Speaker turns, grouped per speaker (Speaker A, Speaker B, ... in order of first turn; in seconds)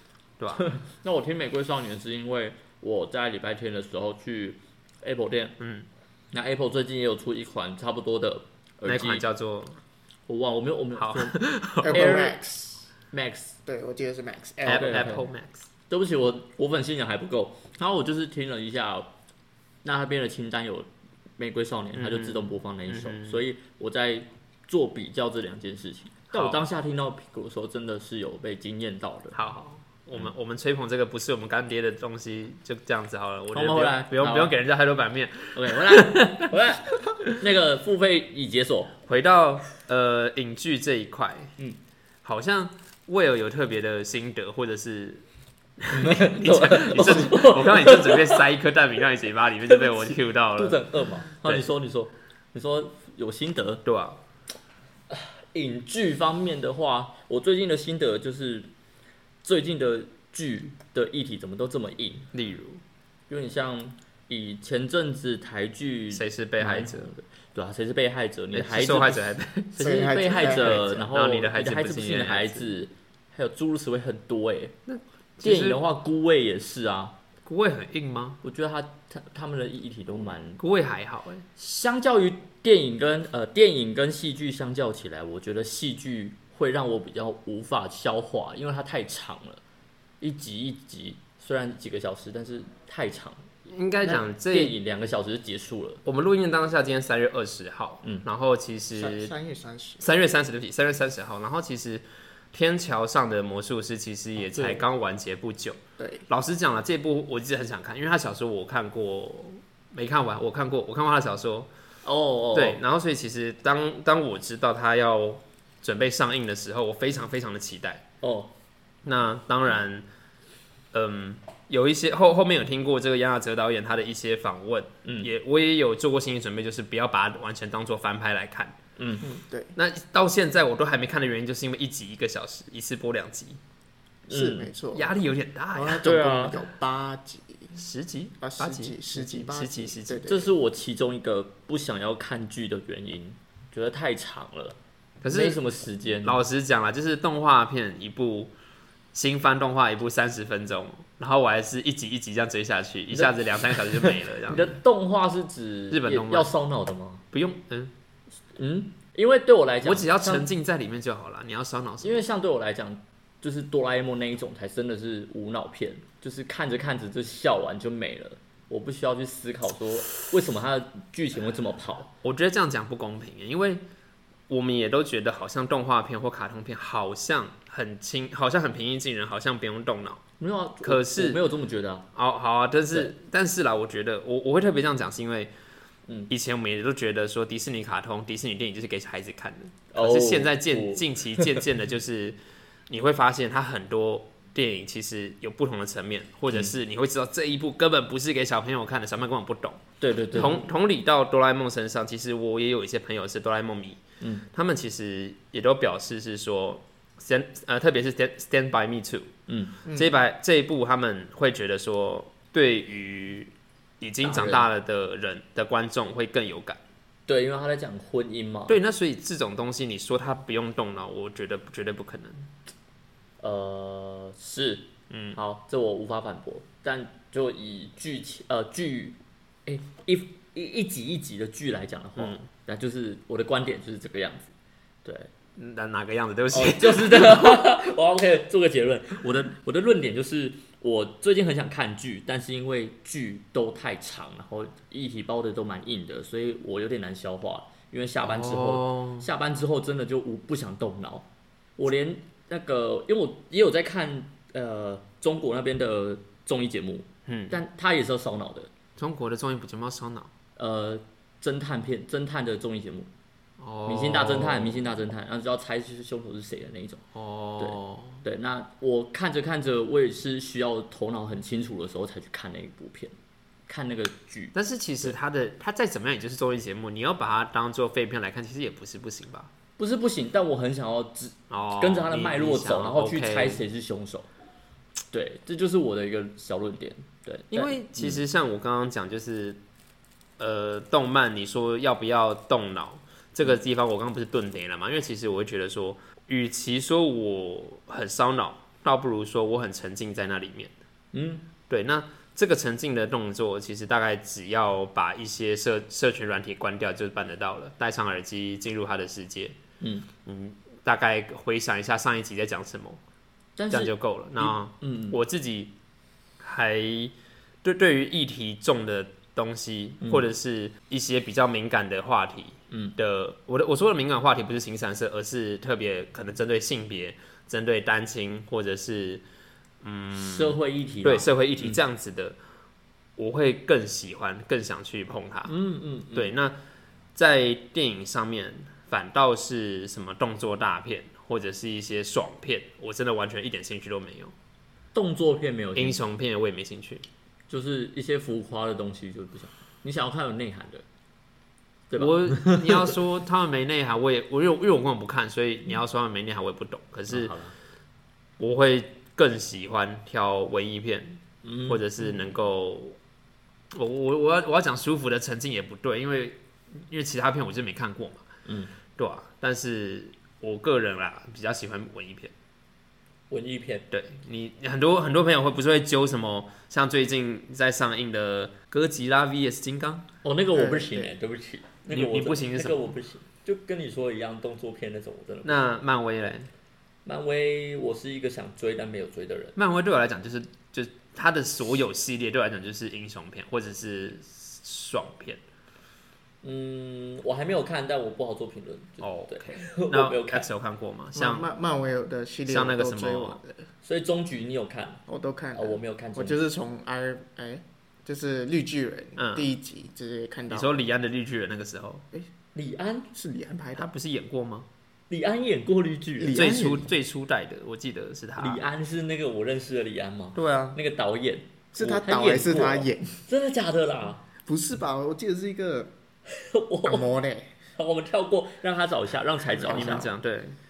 Speaker A: 0.4-0.7, 5.6-5.9, 8.8-9.8, 11.0-11.9, 14.7-15.7, 21.9-23.4, 26.3-26.6, 29.3-36.5, 39.1-41.5, 42.2-45.2, 45.8-50.9, 51.4-51.7, 53.9-54.2, 62.3-62.8, 66.1-67.1, 68.5-69.8, 70.3-72.7, 74.9-75.8, 77.5-78.4, 80.6-81.5, 93.7-94.8, 96.0-99.3, 100.0-111.7, 112.5-118.0, 119.1-120.1, 120.9-128.8, 129.8-133.6, 134.9-136.1, 137.8-140.2, 145.2-145.6, 146.2-148.5, 149.1-154.7, 155.9-156.5, 157.3-157.9, 159.8-162.2, 172.2-173.8, 174.5-180.2, 180.8-181.4, 182.2-185.5, 186.3-192.4, 192.9-199.8, 200.3-209.3, 209.9-216.8, 218.7-222.5, 225.1-225.4, 232.2-232.4, 235.6-237.7, 248.2-249.3, 257.3-257.6, 259.0-260.3, 263.6-264.9, 267.2-268.2, 274.5-279.5, 281.5-283.6, 287.5-289.6, 290.4-300.7, 301.7-309.6, 310.2-313.0, 313.7-315.7, 316.4-329.2, 329.8-332.4, 333.2-335.5, 336.1-336.6, 337.1-344.3, 345.8-347.1, 352.0-357.4, 358.4-363.0, 363.7-368.3, 369.0-372.3, 373.9-380.1, 381.9-382.9, 385.4-386.5, 389.6-395.4, 399.0-401.5, 402.5-403.4, 409.2-409.5, 410.5-412.1, 413.8-414.7, 416.3-418.6, 420.4-420.8, 429.6-430.6
Speaker B: 0.6-5.6, 6.3-9.2, 10.3-12.4, 13.1-13.6, 14.7-15.3, 15.9-19.1, 19.8-20.9, 21.4-29.4, 33.5-34.5, 35.6-39.0, 45.9-48.4, 49.7-53.8, 55.1-58.7, 59.4-62.3, 63.3-74.8, 75.4-77.2, 78.4-80.6, 81.6-89.6, 90.2-93.5, 94.0-96.0, 104.5-104.8, 112.0-112.8, 118.2-118.5, 125.0-125.3, 129.0-129.3, 134.3-134.7, 136.0-136.7, 140.3-146.4, 153.1-157.2, 158.6-160.5, 162.0-172.1, 180.4-182.1, 189.9-191.6, 200.0-200.6, 209.5-209.8, 214.2-214.7, 217.3-218.8, 223.4-234.5, 236.5-251.2, 251.8-258.7, 260.6-263.1, 263.9-267.0, 267.6-273.1, 273.7-275.1, 279.8-284.3, 285.1-288.2, 301.1-301.5, 309.8-310.1, 313.6-315.2, 322.7-323.0, 330.1-331.8, 335.5-336.3, 344.9-346.0, 347.5-350.9, 351.9-353.0, 357.1-357.5, 361.4-362.2, 368.5-368.7, 373.3-373.9, 380.2-385.6, 387.1-389.6, 396.4-400.5, 403.8-405.0, 405.6-406.4, 412.6-413.1, 415.1-416.5, 418.4-424.2, 426.3-427.1, 427.8-430.1
Speaker C: 11.8-12.9, 13.7-15.1, 69.8-70.9, 98.9-100.0, 106.0-106.3, 129.2-129.7, 134.3-135.1, 135.7-137.8, 138.4-140.5, 380.5-381.1, 401.1-403.7, 405.1-410.8, 413.1-413.9, 416.2-416.9, 421.7-423.2, 424.4-425.9, 426.9-427.5, 429.5-430.1